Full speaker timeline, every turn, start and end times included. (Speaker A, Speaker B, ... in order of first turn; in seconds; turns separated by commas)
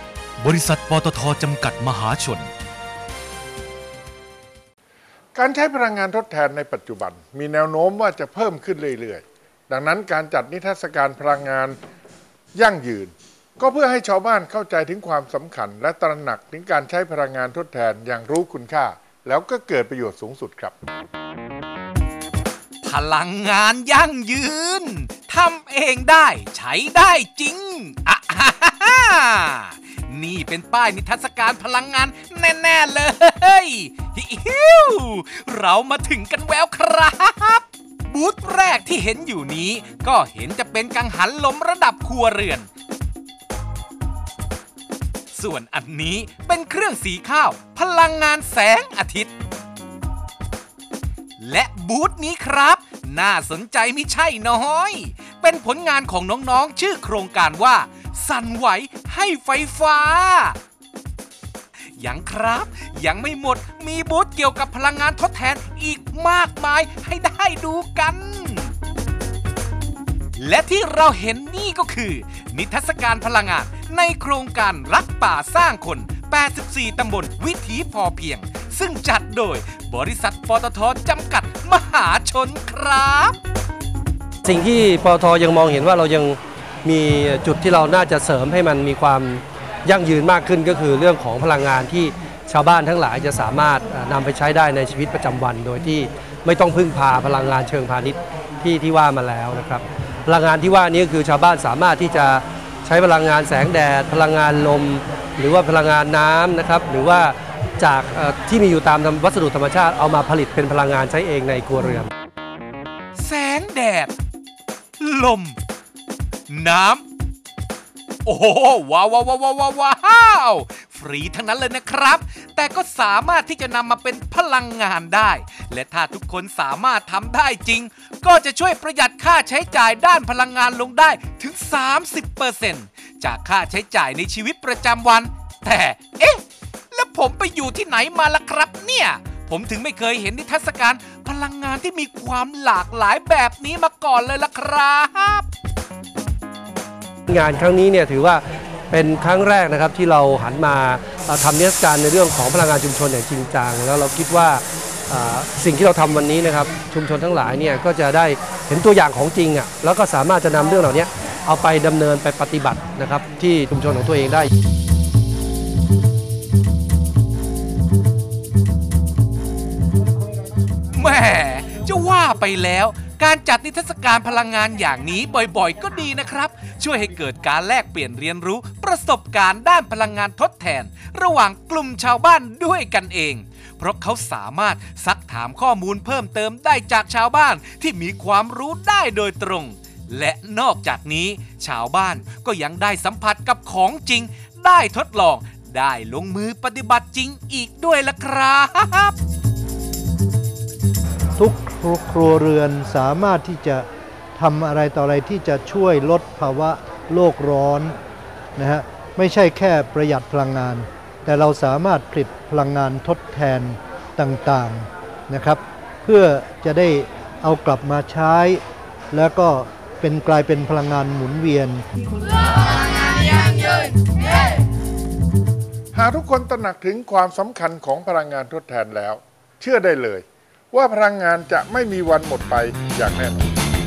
Speaker A: 0.4-2.5, Speaker B: 5.3-11.8, Speaker B: 12.5-20.7, Speaker C: 22.8-42.7, Speaker C: 45.3-49.3, Speaker C: 51.4-60.6, Speaker C: 61.9-68.7, Speaker C: 70.4-83.4, Speaker D: 84.4-112.1, Speaker C: 113.2-114.1, Speaker C: 115.0-115.6, Speaker C: 116.5-117.0, Speaker C: 118.2-145.4, Speaker D: 147.3-164.5, Speaker C: 170.9-199.1, Speaker E: 201.3-208.0, Speaker E: 208.5-221.8, Speaker B: 225.9-233.5